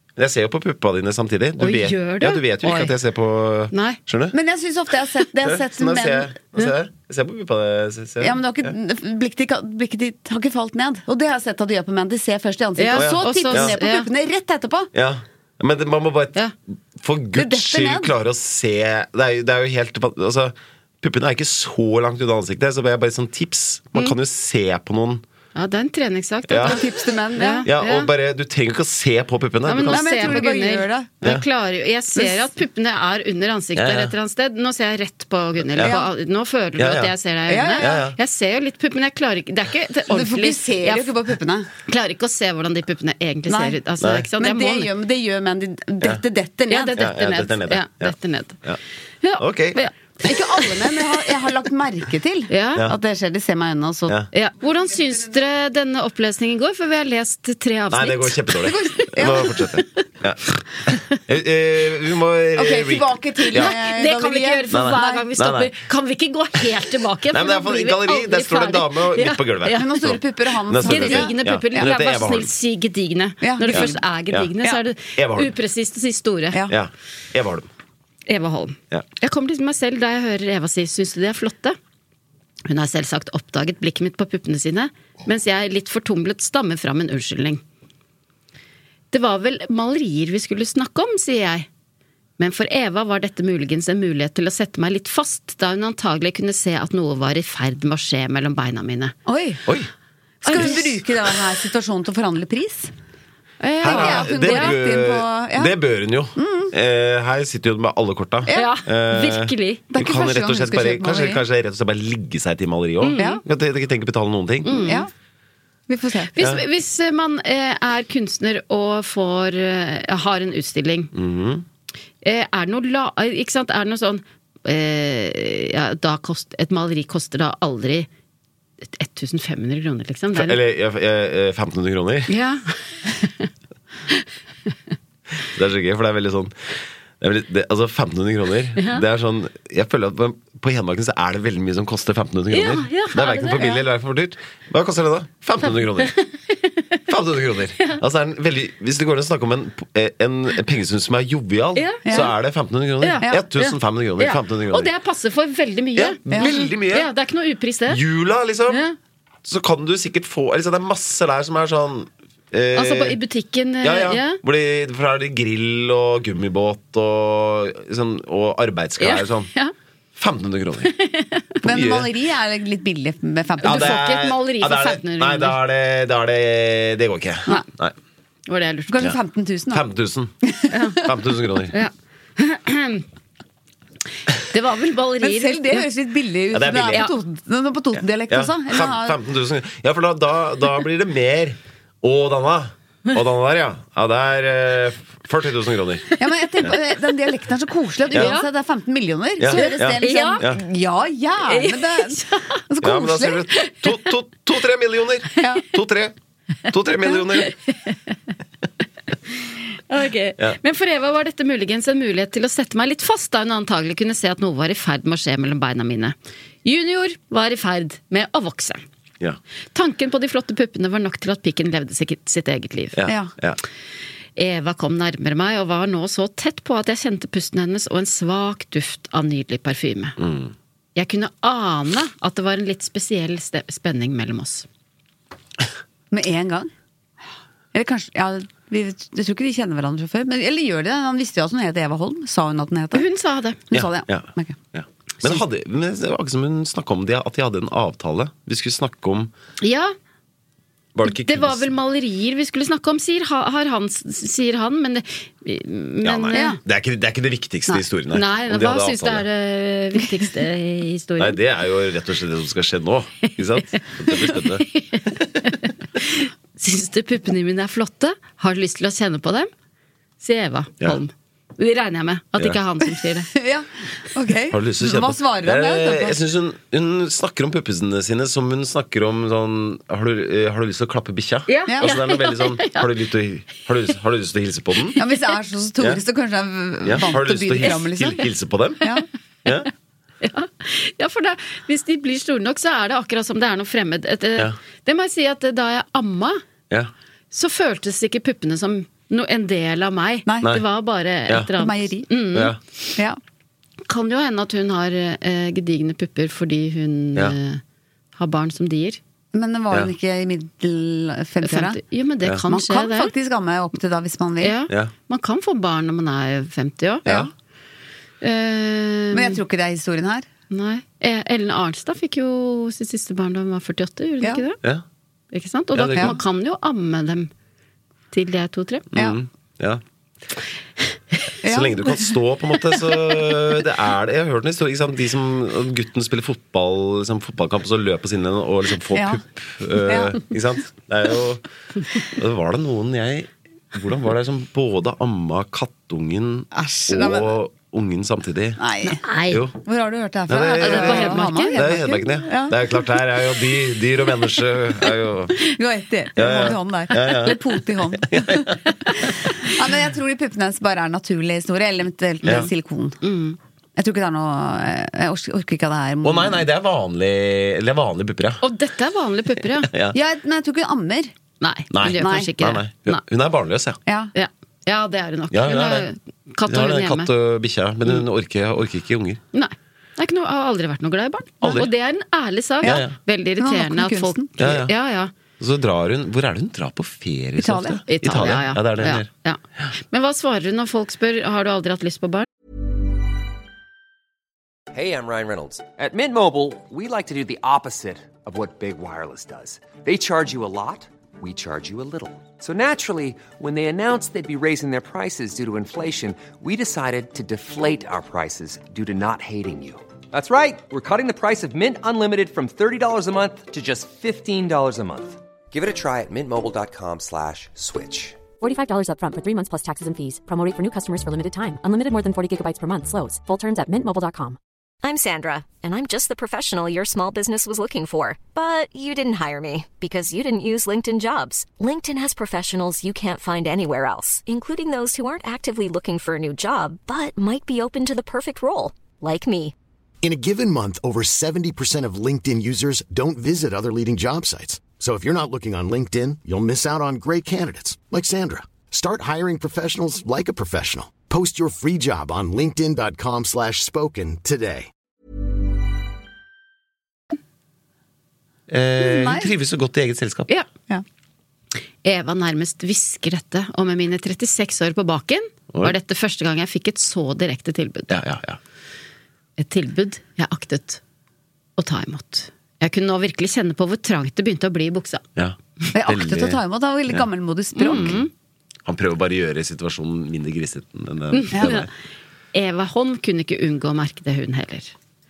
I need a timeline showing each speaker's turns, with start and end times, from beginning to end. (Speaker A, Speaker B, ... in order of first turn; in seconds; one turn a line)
Speaker A: 0.2-4.3
Speaker B: 1.6-2.9
Speaker B: 3.7-4.0
Speaker C: 4.3-6.3
Speaker A: 5.4-8.7
Speaker C: 8.2-14.9
Speaker B: 12.8-14.1
Speaker A: 12.9-13.7
Speaker A: 14.9-16.4
Speaker A: 17.0-25.2
Speaker C: 17.3-18.1
Speaker B: 25.5-28.1
Speaker A: 26.5-26.8
Speaker C: 26.6-27.7
Speaker A: 27.6-30.4
Speaker B: 29.6-41.1
Speaker C: 29.8-31.1
Speaker C: 32.1-32.5
Speaker A: 33.8-34.1
Speaker A: 35.7-36.0
Speaker C: 35.8-36.1
Speaker A: 36.8-37.1
Speaker C: 37.5-38.1
Speaker A: 37.8-38.2
Speaker C: 40.1-41.7
Speaker B: 41.9-44.9
Speaker C: 43.5-43.8
Speaker A: 44.0-44.3
Speaker C: 44.4-47.0
Speaker B: 46.7-48.6
Speaker A: 47.0-48.8
Speaker B: 49.2-50.7
Speaker A: 49.4-49.8
Speaker C: 50.2-54.2
Speaker B: 52.5-52.8
Speaker B: 54.3-58.4
Speaker C: 54.9-55.3
Speaker A: 57.9-63.7
Speaker C: 58.7-59.6
Speaker C: 62.5-65.2
Speaker B: 63.5-70.1
Speaker A: 64.7-65.7
Speaker A: 67.3-72.5
Speaker C: 69.7-71.9
Speaker B: 70.8-76.6
Speaker C: 73.4-74.0
Speaker A: 73.7-74.5
Speaker A: 75.2-75.5
Speaker A: 76.7-77.7
Speaker B: 78.3-81.8
Speaker B: 82.6-87.6
Speaker B: 89.1-91.7
Speaker B: 92.4-99.1
Speaker C: 99.2-99.6
Speaker B: 100.4-101.0
Speaker C: 100.4-102.9
Speaker B: 103.6-104.7
Speaker A: 103.8-114.8
Speaker C: 103.8-105.8
Speaker C: 106.4-106.7
Speaker B: 108.5-109.8
Speaker C: 109.9-111.4
Speaker B: 113.0-113.4
Speaker C: 113.2-113.4
Speaker B: 114.6-115.0
Speaker C: 114.7-115.1
Speaker C: 115.9-116.3
Speaker B: 116.3-121.1
Speaker A: 121.1-121.6
Speaker B: 122.2-128.1
Speaker B: 128.8-130.6
Speaker A: 130.3-132.3
Speaker B: 132.3-133.5
Speaker A: 135.4-146.1
Speaker B: 138.8-139.0
Speaker B: 142.5-143.8
Speaker B: 145.6-147.0
Speaker A: 147.1-154.9
Speaker B: 151.7-152.0
Speaker C: 152.0-152.3
Speaker B: 153.0-158.0
Speaker A: 155.9-157.1
Speaker A: 157.9-158.8
Speaker B: 158.7-158.9
Speaker A: 159.4-163.2
Speaker B: 162.7-164.4
Speaker A: 163.8-169.5
Speaker B: 169.0-169.7
Speaker A: 170.2-170.9
Speaker B: 170.9-171.6
Speaker C: 171.6-174.0
Speaker A: 171.7-172.1
Speaker B: 173.6-175.6
Speaker A: 173.6-177.9
Speaker B: 178.5-179.0
Speaker C: 178.9-179.8
Speaker A: 179.7-180.3
Speaker C: 180.4-180.9
Speaker B: 180.7-181.0
Speaker A: 181.0-181.7
Speaker B: 181.7-183.0
Speaker B: 184.5-185.9
Speaker C: 185.2-189.2
Speaker A: 186.5-187.1
Speaker A: 188.3-196.7
Speaker C: 196.2-203.4
Speaker B: 198.1-198.5
Speaker A: 199.4-200.6
Speaker B: 199.5-200.4
Speaker B: 201.5-202.6
Speaker A: 202.8-206.1
Speaker B: 203.5-203.8
Speaker C: 205.4-205.6
Speaker A: 206.7-207.5
Speaker B: 207.4-208.0
Speaker B: 209.9-218.8
Speaker B: 219.7-223.0
Speaker A: 222.9-223.6
Speaker C: 223.1-223.3
Speaker B: 224.3-230.2
Speaker A: 230.2-230.5
Speaker B: 230.9-234.7
Speaker C: 236.1-236.7
Speaker C: 237.7-243.1
Speaker B: 242.9-243.6
Speaker C: 243.7-244.6
Speaker A: 243.7-249.3
Speaker B: 249.6-249.9
Speaker A: 250.9-251.7
Speaker B: 251.0-256.6
Speaker A: 256.0-259.2
Speaker C: 256.3-256.6
Speaker B: 258.1-261.4
Speaker A: 261.2-264.7
Speaker B: 264.3-269.5
Speaker B: 270.2-273.3
Speaker C: 273.3-276.1
Speaker A: 274.5-285.0
Speaker B: 281.5-282.9
Speaker C: 285.0-288.2
Speaker A: 286.8-288.8
Speaker B: 290.2-296.4
Speaker B: 297.3-303.0
Speaker C: 300.2-300.5
Speaker C: 301.5-302.1
Speaker B: 303.9-307.6
Speaker B: 308.1-309.0
Speaker C: 309.3-311.8
Speaker B: 311.4-313.1
Speaker C: 312.4-314.6
Speaker B: 314.4-317.1
Speaker B: 318.2-319.4
Speaker C: 319.1-320.3
Speaker B: 320.5-324.6
Speaker B: 325.3-327.3
Speaker A: 325.7-326.2
Speaker B: 328.1-328.8
Speaker A: 328.9-329.8
Speaker C: 331.4-332.1
Speaker A: 331.4-341.4
Speaker C: 338.9-339.2
Speaker C: 339.9-340.2
Speaker A: 342.1-348.6
Speaker C: 346.5-347.3
Speaker C: 348.6-349.0
Speaker B: 348.8-349.4
Speaker A: 349.3-349.6
Speaker C: 349.6-352.6
Speaker A: 350.3-355.4
Speaker B: 350.5-351.6
Speaker C: 355.4-363.0
Speaker A: 356.2-357.4
Speaker A: 358.1-358.5
Speaker A: 362.2-362.5
Speaker B: 363.0-363.4
Speaker C: 363.8-366.4
Speaker A: 366.0-368.4
Speaker B: 368.4-369.7
Speaker A: 369.7-369.9
Speaker C: 369.9-371.1
Speaker B: 371.4-373.0
Speaker A: 371.7-373.8
Speaker C: 371.9-372.3
Speaker C: 373.9-374.1
Speaker B: 374.1-377.1
Speaker A: 375.3-375.9
Speaker A: 376.5-379.2
Speaker B: 379.3-385.1
Speaker A: 381.4-381.7
Speaker A: 382.6-382.9
Speaker C: 383.4-384.3
Speaker A: 384.4-384.7
Speaker A: 385.4-389.1
Speaker C: 387.4-387.8
Speaker B: 387.9-392.3
Speaker D: 394.7-418.2
Speaker E: 418.4-424.4
Speaker F: 424.8-439.5
Speaker G: 440.0-454.7
Speaker A: 458.5-460.3
Speaker C: 458.8-459.3
Speaker B: 461.8-467.9
Speaker A: 467.9-468.4
Speaker B: 469.4-470.8
Speaker B: 471.6-475.0
Speaker A: 475.1-477.0
Speaker C: 475.7-478.1
Speaker B: 477.6-478.1
Speaker A: 477.7-477.9
Speaker A: 478.6-481.7
Speaker B: 481.1-481.6
Speaker C: 481.3-481.6
Speaker B: 482.3-484.7